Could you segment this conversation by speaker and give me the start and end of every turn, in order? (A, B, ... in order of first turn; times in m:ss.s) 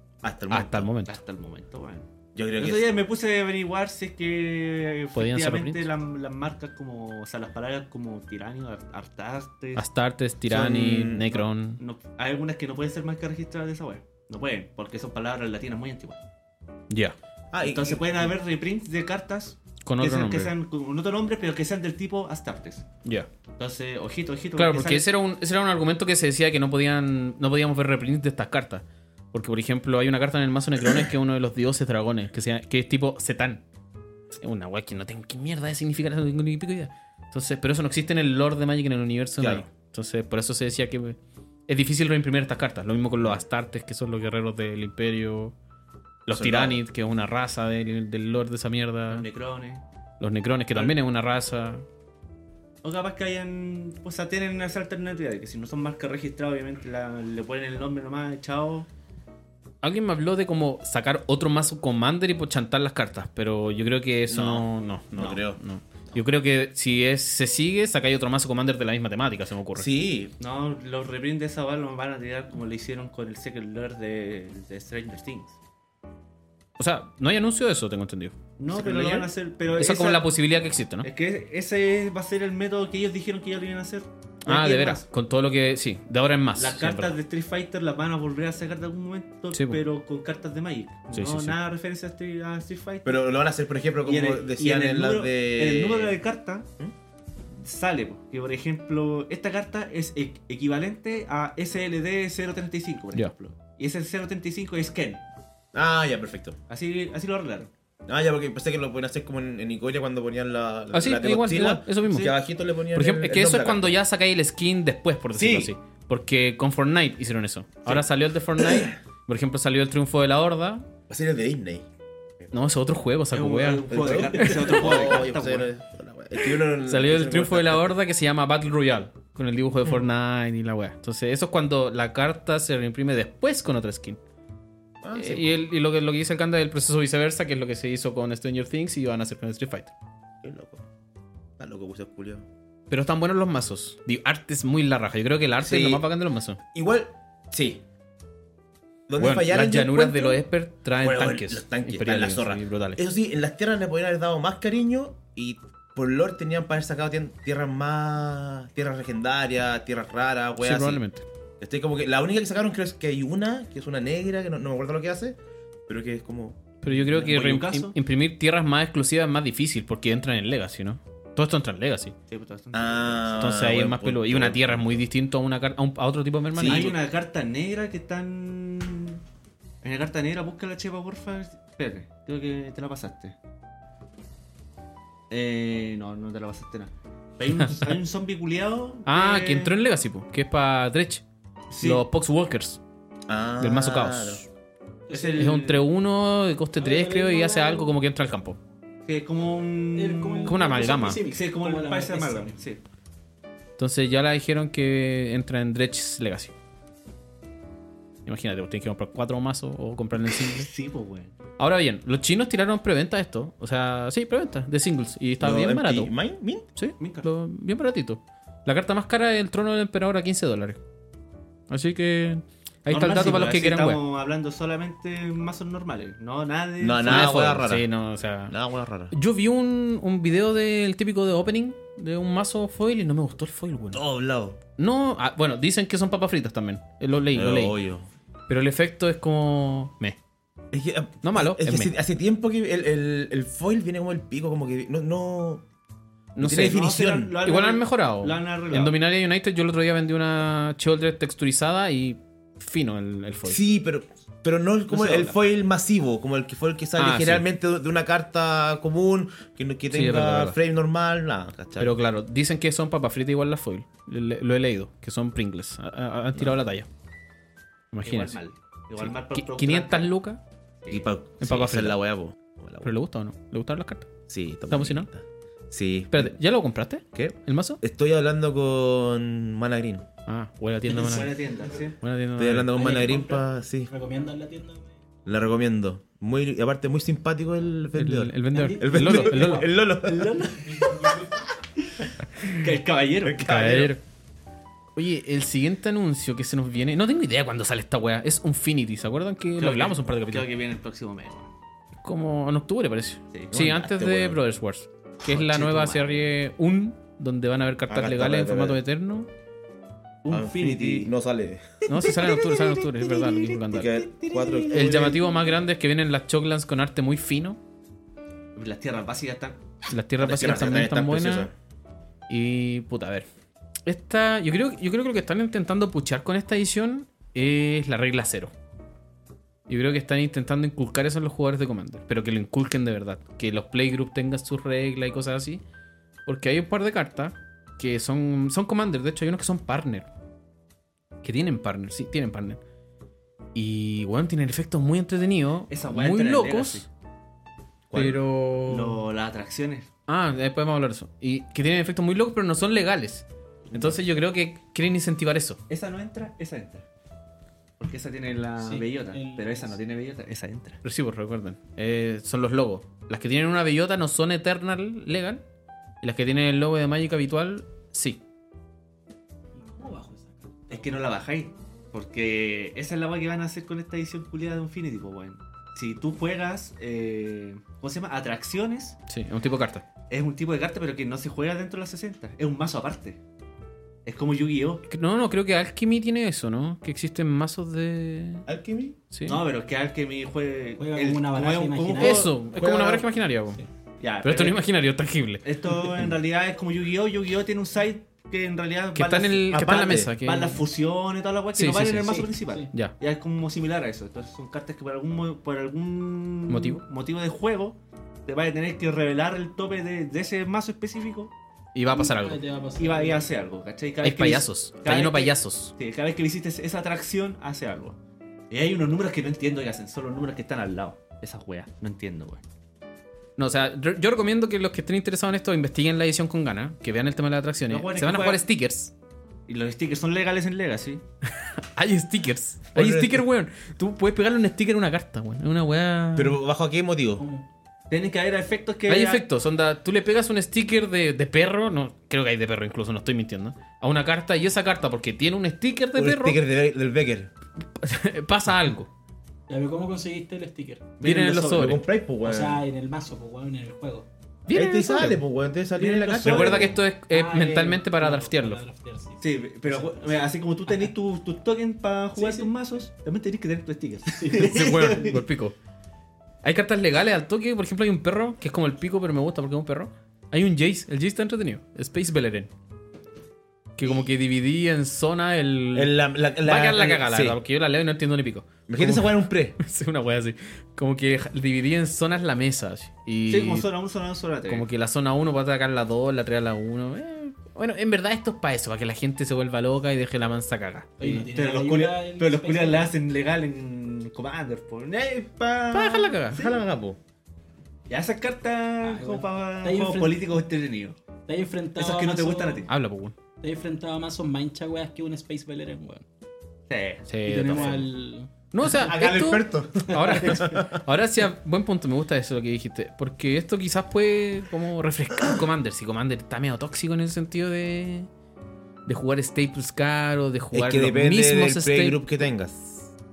0:00.2-0:00.9 A
0:00.5-0:01.2 B
0:01.1-0:09.8 C
0:02.4-0:03.0 A
0:05.2-0:05.9 B
0:09.8-0:11.8 B
0:10.5-0:11.4 A
0:11.8-0:16.2 C
0:16.9-0:17.2 B
0:17.5-0:18.3 A
0:17.6-0:22.9 C
0:19.8-0:20.5 B
0:23.6-0:25.1 C
0:24.6-0:33.6 B
0:34.4-0:45.6 B
0:39.4-0:39.7 A
0:46.3-0:49.2 B
0:46.3-0:46.8 A
0:49.1-0:49.8 C
0:50.2-0:51.8 B
0:52.8-0:58.9 C
0:59.8-1:09.9 B
1:04.3-1:05.6 A
1:09.8-1:10.3 A
1:10.4-1:15.6 C
1:16.8-1:18.4 B
1:18.6-1:20.3 C
1:18.7-1:19.3 A
1:19.8-1:21.1 B
1:21.0-1:25.0 C
1:24.4-1:27.2 B
1:26.6-1:33.3 C
1:29.5-1:29.8 B
1:31.1-1:31.6 B
1:33.0-1:36.2 A
1:34.0-1:36.7 C
1:37.6-1:45.2 C
1:45.7-1:46.6 A
1:46.7-1:47.7 C
1:48.1-1:54.0 A
1:50.9-1:52.3 B
1:52.9-2:00.9 B
1:55.4-1:55.7 C
1:58.6-1:59.0 A
2:01.1-2:01.9 A
2:02.5-2:04.8 B
2:03.3-2:05.7 C
2:03.9-2:07.9 A
2:06.8-2:14.2 B
2:15.0-2:15.5 A
2:15.1-2:19.9 B
2:20.4-2:20.8 A
2:21.6-2:22.5 A
2:22.9-2:26.6 B
2:25.6-2:26.0 A
2:26.7-2:27.8 A
2:29.1-2:30.4 A
2:29.2-2:33.0 B
2:31.0-2:41.0 A
2:40.6-2:41.2 B
2:41.6-2:46.6 A
2:46.8-2:52.2 B
2:46.9-2:47.9 C
2:52.3-2:53.4 C
2:52.7-2:55.0 A
2:53.4-2:56.9 B
2:56.5-2:57.0 A
2:56.7-2:59.2 C
2:59.8-3:03.4 C
3:05.3-3:09.8 C
3:09.1-3:11.2 B
3:11.7-3:12.0 C
3:11.8-3:12.8 B
3:13.3-3:14.4 A
3:13.6-3:14.5 B
3:15.1-3:15.5 D
3:15.1-3:15.8 C
3:15.4-3:18.6 B
3:16.8-3:18.0 D
3:19.1-3:22.8 C
3:20.0-3:22.6 D
3:20.4-3:21.2 B
3:23.8-3:26.5 B
3:28.3-3:30.7 B
3:30.2-3:31.3 C
3:31.6-3:36.1 B
3:35.4-3:36.7 A
3:36.8-3:40.8 B
3:37.0-3:37.3 C
3:41.7-3:44.0 B
3:42.9-3:47.4 C
3:46.8-3:47.9 A
3:47.0-3:48.6 B
3:48.5-3:49.1 A
3:49.1-3:54.0 B
3:53.9-3:54.6 A
3:54.8-3:57.8 B
3:57.3-3:58.1 A
3:58.5-4:00.2 B
4:00.7-4:05.6 A
4:01.2-4:01.9 B
4:06.4-4:06.8 B
4:06.4-4:07.4 A
4:06.4-4:09.0 C
4:07.4-4:13.6 B
4:13.4-4:22.0 A
4:14.9-4:15.4 C
4:17.0-4:17.4 B
4:19.9-4:20.6 B
4:21.8-4:26.9 B
4:27.9-4:28.4 B
4:28.0-4:30.1 C
4:29.0-4:30.4 B
4:30.9-4:32.9 A
4:31.4-4:32.0 B
4:32.8-4:34.1 B
4:34.3-4:36.4 A
4:34.7-4:35.1 B
4:36.1-4:37.8 B
4:37.1-4:40.1 A
4:40.3-4:41.4 B
4:40.9-4:42.0 C
4:42.0-4:42.7 B
4:42.4-4:43.9 A
4:42.8-4:44.9 D
4:42.8-4:43.2 C
4:45.3-4:51.3 A
4:48.0-4:49.7 B
4:48.6-4:49.7 D
4:50.0-4:51.3 C
4:51.9-4:53.9 C
4:52.4-4:52.6 B
4:53.3-4:53.7 A
4:53.4-4:54.0 B
4:55.0-5:00.5 B
4:59.6-5:01.5 C
5:02.0-5:09.3 B
5:03.5-5:04.4 A
5:05.3-5:06.1 C
5:07.9-5:08.8 A
5:10.2-5:11.1 C
5:10.3-5:11.8 A
5:11.9-5:14.0 B
5:12.0-5:15.1 C
5:13.7-5:15.2 A
5:14.7-5:17.6 B
5:18.6-5:19.6 C
5:19.9-5:21.5 B
5:20.2-5:21.5 A
5:22.3-5:23.3 B
5:23.9-5:28.5 B
5:29.7-5:35.6 B
5:36.3-5:40.1 B
5:41.2-5:42.6 B
5:43.6-5:46.9 B
5:45.7-5:46.9 C
5:47.9-5:48.2 A
5:47.9-5:49.0 B
5:48.7-5:49.9 C
5:50.1-5:55.6 B
5:53.7-5:54.0 A
5:55.7-5:56.8 C
5:57.8-6:00.8 C
5:58.6-5:59.8 D
6:00.8-6:05.4 B
6:06.0-6:08.2 B
6:09.6-6:11.1 D
6:10.7-6:19.0 C
6:19.1-6:19.8 B
6:20.1-6:23.2 C
6:24.0-6:24.8 C
6:24.9-6:28.5 B
6:28.5-6:29.0 A
6:29.1-6:29.4 B
6:29.2-6:32.3 C
6:30.8-6:32.3 D
6:32.0-6:33.6 B
6:32.6-6:33.1 A
6:34.0-6:34.6 C
6:34.2-6:35.4 B
6:35.4-6:51.3 C
6:39.0-6:40.6 B
6:39.5-6:40.1 A
6:41.6-6:42.9 B
6:42.0-6:42.7 D
6:46.5-6:46.8 B
6:51.8-6:52.4 B
6:51.9-6:53.3 D
6:52.8-6:58.0 C
6:54.0-6:55.7 B
6:58.5-7:02.4 C
7:03.4-7:08.9 B
7:07.7-7:08.4 C
7:09.5-7:11.0 C
7:11.3-7:16.4 B
7:12.7-7:13.3 A
7:16.2-7:17.2 A
7:17.2-7:17.4 D
7:17.9-7:19.2 C
7:18.9-7:26.4 B
7:26.0-7:27.3 A
7:27.8-7:28.9 B
7:29.5-7:30.9 D
7:31.0-7:31.8 C
7:31.0-7:31.8 B
7:31.4-7:32.6 A
7:32.2-7:34.1 D
7:34.5-7:35.2 B
7:34.5-7:36.8 A
7:35.8-7:36.7 C
7:36.2-7:38.6 B
7:36.6-7:40.9 D
7:39.2-7:45.2 C
7:42.2-7:42.5 D
7:44.2-7:44.5 D
7:44.4-7:45.6 B
7:46.4-7:52.5 B
7:53.8-8:03.7 B
7:55.7-7:57.4 A
7:58.7-7:59.6 A
8:03.3-8:04.7 C
8:04.5-8:11.3 B
8:11.0-8:12.9 D
8:11.1-8:16.6 C
8:15.7-8:16.4 B
8:16.3-8:17.0 A
8:17.9-8:21.0 C
8:18.8-8:20.2 D
8:21.3-8:22.7 D
8:21.8-8:22.7 C
8:22.7-8:23.1 B
8:23.4-8:26.0 D
8:26.7-8:27.8 C
8:27.1-8:27.9 B
8:27.3-8:28.3 D
8:28.5-8:38.1 B
8:28.6-8:30.8 A
8:29.9-8:30.5 D
8:38.9-8:42.1 B
8:40.5-8:42.9 A